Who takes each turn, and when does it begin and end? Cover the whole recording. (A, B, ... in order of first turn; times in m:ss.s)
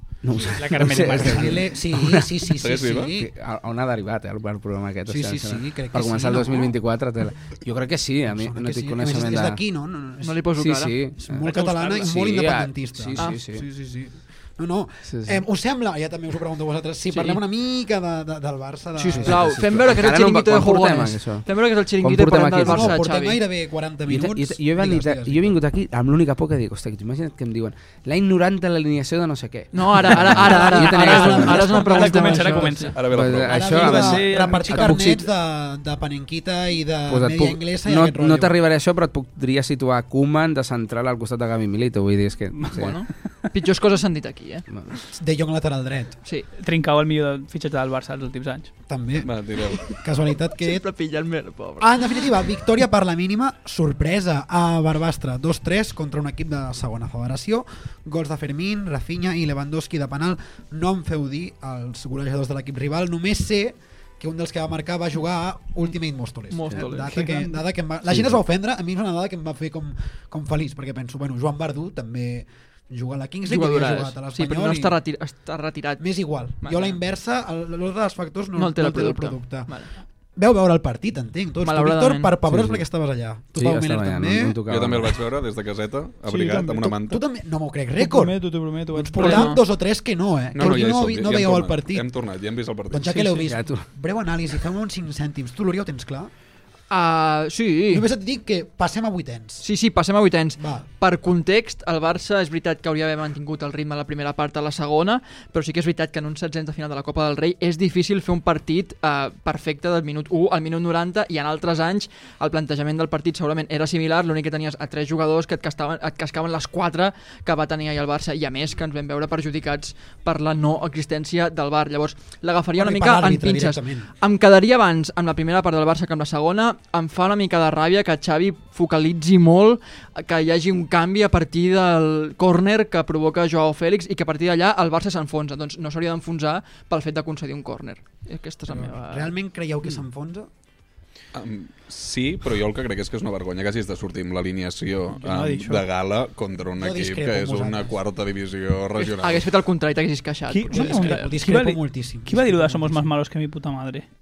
0:00.2-0:02.3 A
0:00.5-0:01.6 B
0:00.8-0:03.3 C
0:02.6-0:03.1 D
0:03.1-0:09.6 A
0:05.1-0:06.7 C
0:08.3-0:10.4 C
0:10.2-0:11.0 E
0:10.6-0:13.6 A
0:11.2-0:19.6 C
0:11.5-0:12.2 B
0:15.0-0:15.4 A
0:17.1-0:17.4 E
0:19.0-0:23.4 E
0:19.1-0:21.5 A
0:22.0-0:23.0 A
0:22.6-0:25.6 C
0:24.1-0:31.7 A
0:29.7-0:32.9 E
0:30.8-0:32.8 C
0:30.8-0:33.0 B
0:33.0-0:33.9 D
0:33.1-0:35.2 A
0:33.5-0:38.5 C
0:33.5-0:35.0 B
0:37.1-0:43.0 A
0:42.6-0:42.8 B
0:42.8-0:44.6 E
0:45.1-0:46.2 C
0:46.5-0:48.7 B
0:48.9-0:50.8 C
0:49.2-0:49.9 D
0:50.6-0:52.2 E
0:51.8-1:15.0 C
1:06.5-1:07.2 E
1:07.1-1:07.6 B
1:08.1-1:08.4 A
1:13.4-1:17.0 E
1:16.0-1:19.8 C
1:18.5-1:19.9 E
1:20.3-1:24.6 C
1:21.6-1:22.3 E
1:22.5-1:22.8 A
1:23.6-1:25.2 A
1:24.7-1:27.2 D
1:26.3-1:27.0 B
1:27.0-1:32.0 C
1:28.0-1:29.6 B
1:29.2-1:29.6 D
1:30.5-1:33.2 D
1:32.9-1:36.3 C
1:33.1-1:33.8 A
1:36.9-1:38.0 E
1:37.9-1:39.6 C
1:39.6-2:19.3 E
1:40.6-1:40.8 C
2:02.8-2:04.1 C
2:18.7-2:20.5 C
2:21.3-2:29.5 D
2:25.2-2:25.8 B
2:26.8-2:27.9 C
2:29.2-2:31.3 E
2:30.5-2:34.0 B
2:30.7-2:33.1 C